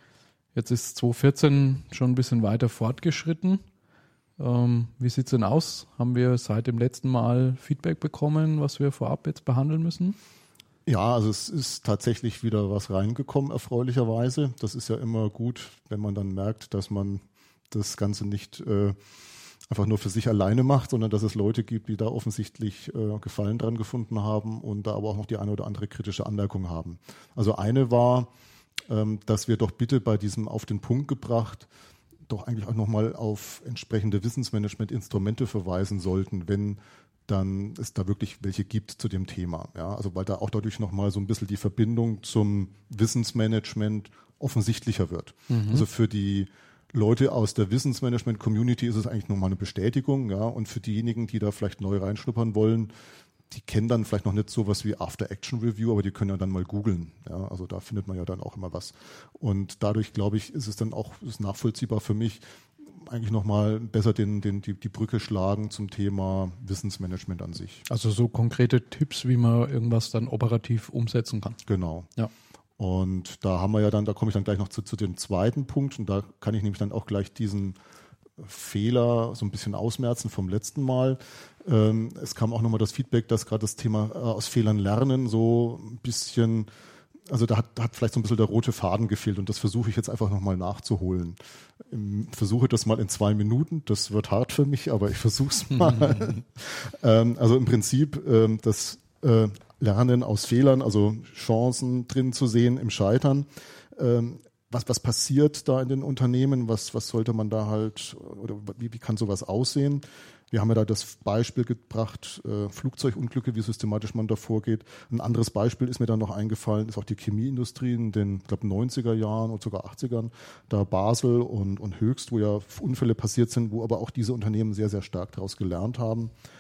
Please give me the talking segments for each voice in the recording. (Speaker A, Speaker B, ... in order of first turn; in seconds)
Speaker A: 0.6-3.6, 4.4-10.2, 45.5-45.9, 67.9-71.6
Speaker B: 10.9-19.0, 19.7-28.3, 28.9-31.7, 32.3-52.9, 53.5-67.8, 71.7-72.1, 72.8-77.8, 78.4-86.7, 87.3-126.3